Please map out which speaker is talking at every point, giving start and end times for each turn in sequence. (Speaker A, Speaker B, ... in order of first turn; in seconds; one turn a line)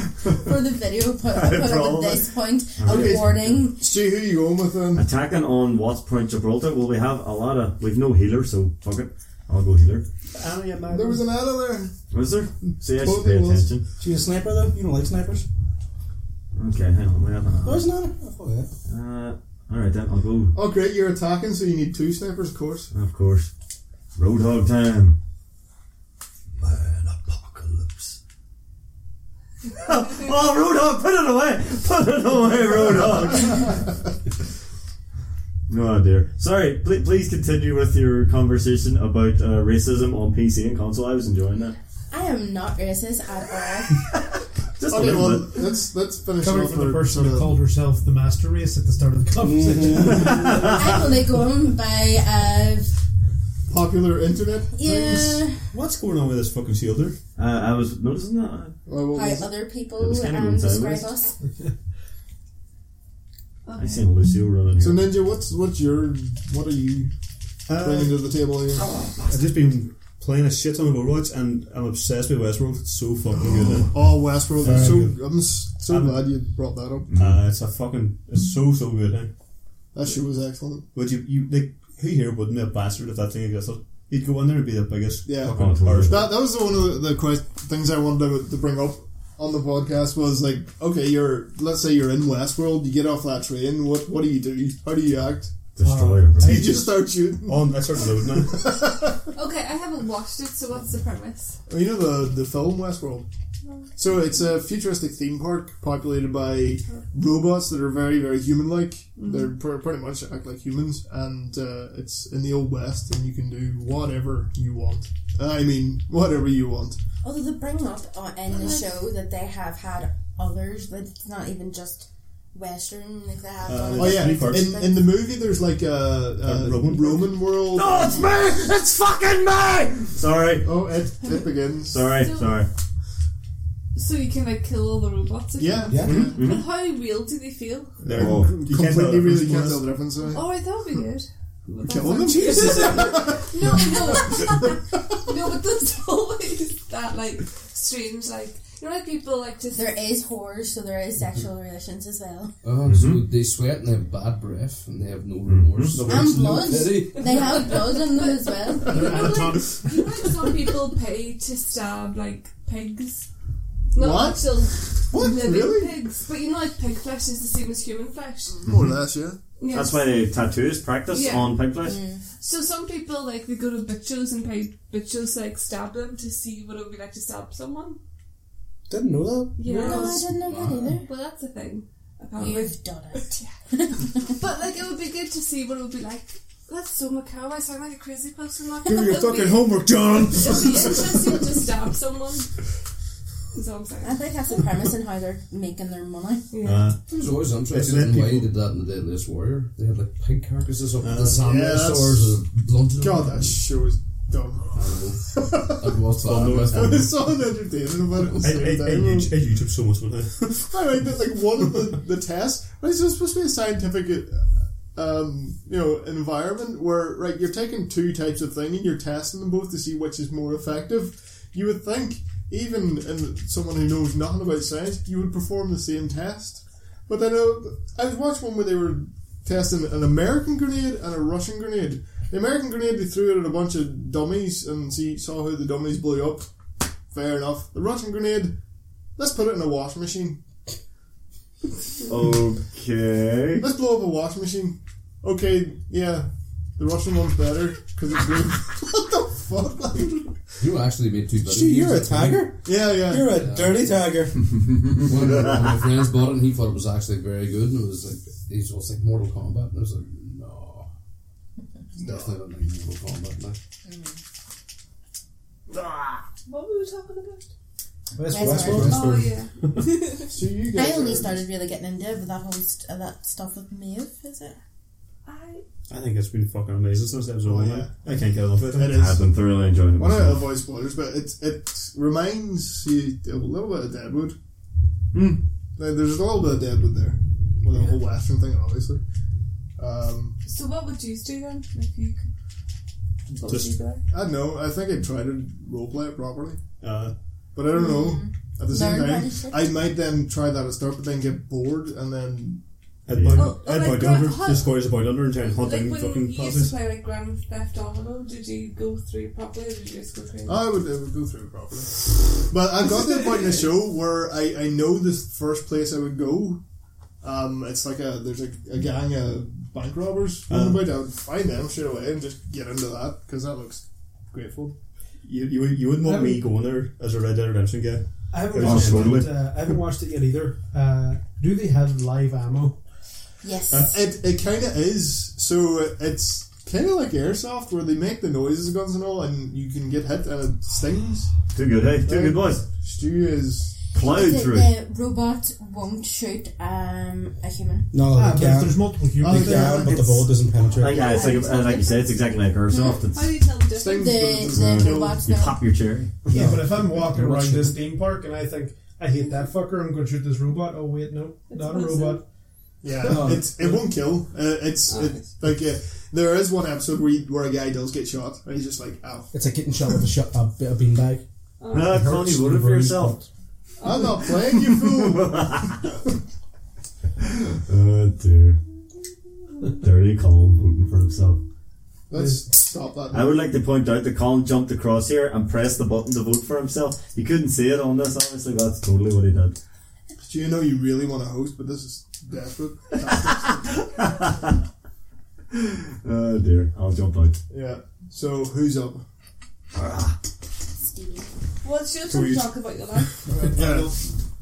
Speaker A: 0.3-3.8
Speaker B: 1.3-3.7
Speaker C: 2.9-5.1
Speaker B: 4.9-10.1
Speaker D: 10.3-11.3
Speaker C: 10.8-11.9
Speaker B: 12.1-13.8
Speaker C: 12.7-13.7
Speaker E: 14.0-15.5
Speaker B: 16.6-17.9
Speaker E: 17.6-18.7
Speaker B: 18.9-20.6
Speaker C: 20.5-22.9
Speaker B: 22.9-23.5
Speaker B: 24.2-25.2
Speaker B: 26.6-28.2
Speaker B: 29.7-34.0
Speaker B: 35.7-41.8
Speaker A: 42.1-44.0
Speaker B: 44.0-44.2
Speaker B: 44.8-45.7
Speaker C: 44.9-47.6
Speaker D: 46.3-50.6
Speaker E: 49.4-50.4
Speaker B: 50.2-51.0
Speaker A: 50.6-52.9
Speaker C: 53.7-55.4
Speaker A: 54.7-55.7
Speaker F: 55.7-57.2
Speaker B: 57.4-58.8
Speaker C: 58.9-59.5
Speaker A: 59.1-61.4
Speaker B: 60.0-61.0
Speaker G: 63.7-64.1
Speaker B: 63.8-65.1
Speaker C: 64.8-67.1
Speaker F: 67.7-68.3
Speaker C: 67.7-68.8
Speaker B: 68.8-69.3
Speaker F: 69.0-76.3
Speaker C: 73.8-77.1
Speaker B: 77.1-77.4
Speaker F: 77.1-79.3
Speaker C: 79.9-80.9
Speaker F: 80.9-86.3
Speaker C: 85.2-95.5
Speaker B: 85.4-86.4
Speaker B: 95.8-96.7
Speaker D: 95.9-96.3
Speaker F: 95.9-98.8
Speaker C: 96.4-99.3
Speaker G: 99.3-101.6
Speaker C: 101.7-103.3
Speaker C: 104.0-117.0
Speaker G: 109.2-109.5
Speaker A: 117.2-125.0
Speaker G: 118.5-118.8
Speaker F: 123.7-124.9
Speaker C: 124.0-128.1
Speaker F: 126.4-127.4
Speaker B: 127.7-130.7
Speaker C: 130.6-132.1
Speaker B: 131.8-132.7
Speaker G: 132.2-132.6
Speaker G: 133.9-138.0
Speaker C: 135.6-136.4
Speaker E: 135.9-136.3
Speaker B: 136.1-136.7
Speaker C: 138.0-140.6
Speaker F: 138.1-140.0
Speaker B: 138.2-138.6
Speaker G: 140.3-150.0
Speaker C: 141.8-145.2
Speaker E: 142.3-143.2
Speaker A: 149.8-152.5
Speaker H: 152.6-157.6
Speaker B: 152.8-153.2
Speaker B: 155.5-156.0
Speaker E: 155.9-157.1
Speaker A: 156.1-159.4
Speaker G: 157.2-163.3
Speaker D: 158.9-159.9
Speaker G: 163.9-168.6
Speaker C: 164.0-166.0
Speaker C: 168.6-169.4
Speaker G: 169.6-170.2
Speaker B: 169.7-172.0
Speaker G: 171.1-171.6
Speaker A: 171.8-172.2
Speaker G: 172.4-178.0
Speaker E: 178.9-180.2
Speaker G: 179.6-180.3
Speaker A: 179.7-181.1
Speaker H: 179.8-181.0
Speaker G: 181.1-182.8
Speaker A: 182.4-184.3
Speaker G: 184.2-189.7
Speaker G: 190.3-192.6
Speaker G: 193.5-194.2
Speaker A: 194.0-196.5
Speaker G: 196.5-196.9
Speaker B: 196.6-197.0
Speaker H: 197.1-203.6
Speaker F: 197.7-198.5
Speaker F: 201.0-201.7
Speaker C: 201.4-202.3
Speaker C: 203.0-206.0
Speaker H: 204.8-207.1
Speaker F: 206.2-207.1
Speaker C: 206.6-209.3
Speaker F: 208.3-210.8
Speaker C: 210.7-236.5
Speaker C: 237.1-238.6
Speaker C: 239.2-240.4
Speaker B: 242.1-243.7
Speaker C: 243.6-250.3
Speaker H: 250.6-252.5
Speaker E: 251.5-254.4
Speaker C: 252.6-253.4
Speaker H: 253.3-253.9
Speaker B: 254.6-255.8
Speaker H: 255.1-260.9
Speaker C: 262.0-262.3
Speaker H: 262.0-263.6
Speaker A: 263.9-264.2
Speaker G: 266.5-267.5
Speaker E: 268.2-269.3
Speaker A: 268.3-269.0
Speaker D: 268.4-268.9
Speaker C: 268.7-269.2
Speaker G: 268.9-270.3
Speaker C: 270.3-271.4
Speaker A: 270.7-274.6
Speaker G: 275.2-275.6
Speaker F: 275.9-279.0
Speaker C: 277.4-278.1
Speaker C: 278.7-279.2
Speaker B: 278.9-280.6
Speaker C: 280.0-284.4
Speaker B: 285.1-285.4
Speaker C: 285.8-289.0
Speaker C: 289.8-290.4
Speaker G: 290.4-292.2
Speaker G: 293.3-294.0
Speaker F: 293.4-293.8
Speaker C: 294.1-296.6
Speaker F: 296.8-297.1
Speaker C: 297.6-302.6
Speaker A: 297.7-299.8
Speaker F: 303.1-306.7
Speaker B: 303.1-303.5
Speaker G: 303.3-304.7
Speaker G: 305.4-310.6
Speaker C: 310.5-316.6
Speaker C: 317.2-324.8
Speaker F: 320.5-320.9
Speaker F: 325.2-329.3
Speaker D: 326.0-326.5
Speaker D: 328.3-332.8
Speaker B: 328.6-329.3
Speaker A: 333.4-334.0
Speaker C: 333.7-341.3
Speaker B: 341.5-342.7
Speaker C: 342.1-343.8
Speaker B: 343.9-344.7
Speaker A: 344.0-347.9
Speaker E: 347.9-351.2
Speaker D: 348.1-350.3
Speaker C: 349.2-350.1
Speaker B: 350.7-353.4
Speaker A: 350.9-353.0
Speaker G: 353.1-354.2
Speaker C: 353.7-355.2
Speaker A: 353.9-355.6
Speaker B: 354.5-356.3
Speaker D: 356.3-362.2
Speaker E: 356.3-357.8
Speaker G: 361.5-362.2
Speaker C: 362.8-369.3
Speaker E: 363.0-363.9
Speaker G: 364.9-365.3
Speaker E: 369.3-373.3
Speaker G: 371.6-372.0
Speaker B: 371.7-373.2
Speaker G: 373.8-374.2
Speaker C: 373.8-375.7
Speaker B: 374.2-375.9
Speaker B: 377.7-378.6
Speaker B: 379.8-381.4
Speaker C: 382.1-383.4
Speaker D: 382.1-382.4
Speaker B: 383.1-389.6
Speaker C: 390.2-393.7
Speaker B: 392.9-394.6
Speaker B: 395.5-397.4
Speaker C: 397.5-399.0
Speaker B: 399.8-400.2
Speaker A: 400.8-401.3
Speaker G: 401.6-403.2
Speaker F: 402.1-402.5
Speaker C: 403.3-403.9
Speaker E: 403.5-403.9